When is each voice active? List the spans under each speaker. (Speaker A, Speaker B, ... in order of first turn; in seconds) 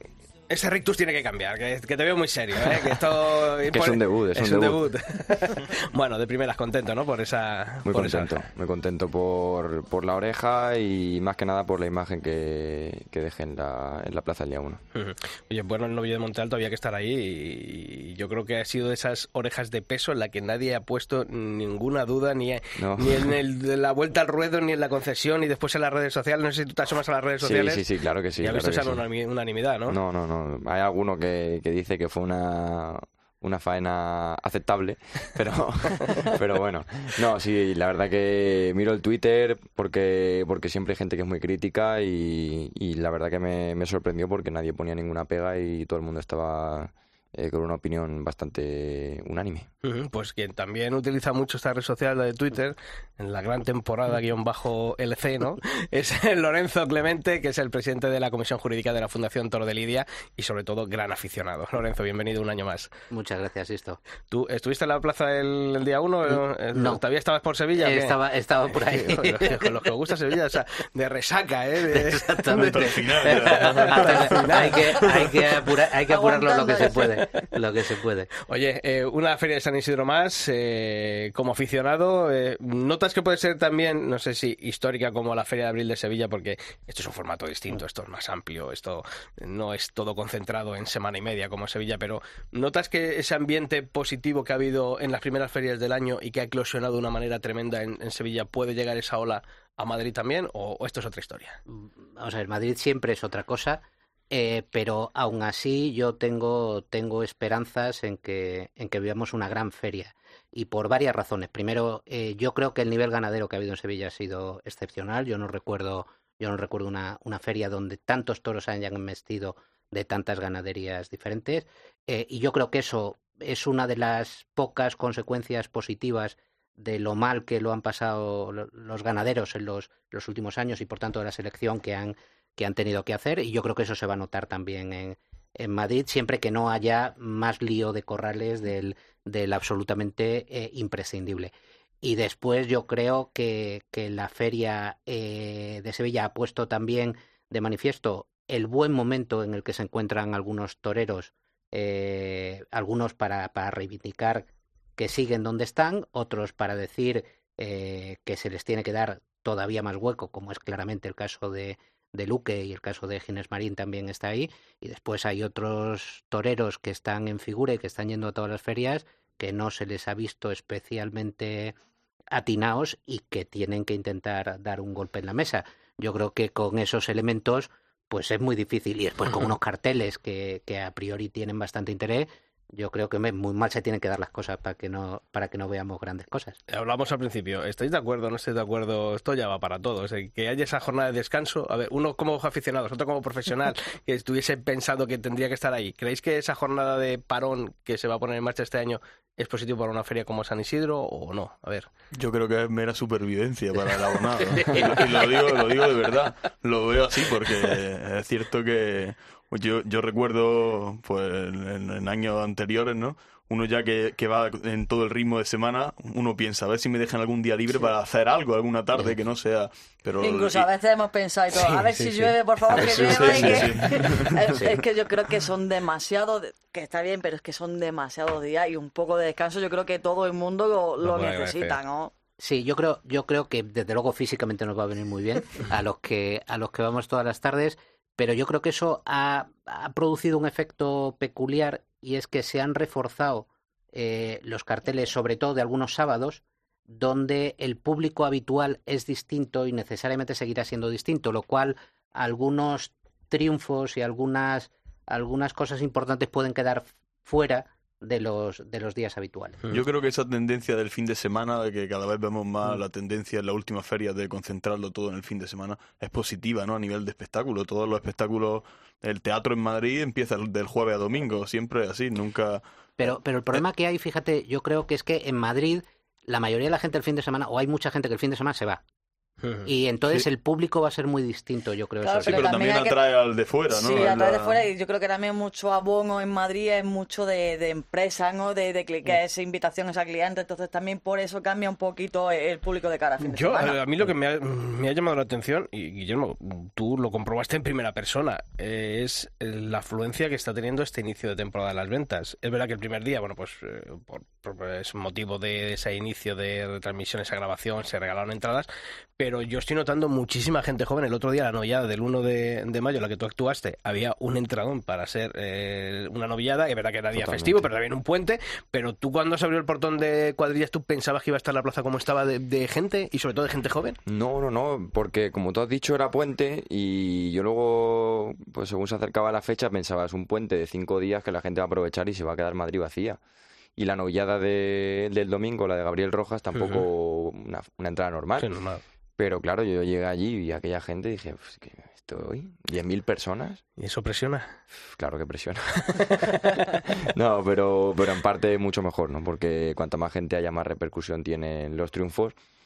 Speaker A: 0.5-8.4, 14.9-27.8, 28.4-30.0, 49.8-62.9, 64.3-68.2, 68.7-75.3, 78.4-101.6, 186.7-201.9, 221.5-222.3, 223.0-223.6, 231.0-231.8, 279.4-279.7, 293.2-324.0, 336.5-336.8, 338.4-338.8, 343.8-344.6, 346.0-346.6
Speaker B: 3.7-4.9, 7.8-14.8, 22.8-23.2, 27.4-29.0, 29.9-49.7, 317.1-317.6, 324.1-333.2, 333.8-338.5, 339.2-343.6, 344.9-346.2, 347.0-352.3
Speaker C: 63.1-64.0, 66.3-67.0, 67.8-69.9, 71.9-78.3, 101.7-141.5, 142.0-171.7, 172.3-186.6, 204.5-205.5, 232.4-259.6, 273.0-278.8, 279.6-282.5
Speaker D: 72.5-74.4, 202.1-220.7, 222.7-224.7, 259.7-272.6, 282.2-284.6
Speaker E: 76.1-77.5, 220.2-232.1, 282.0-283.0, 283.7-293.8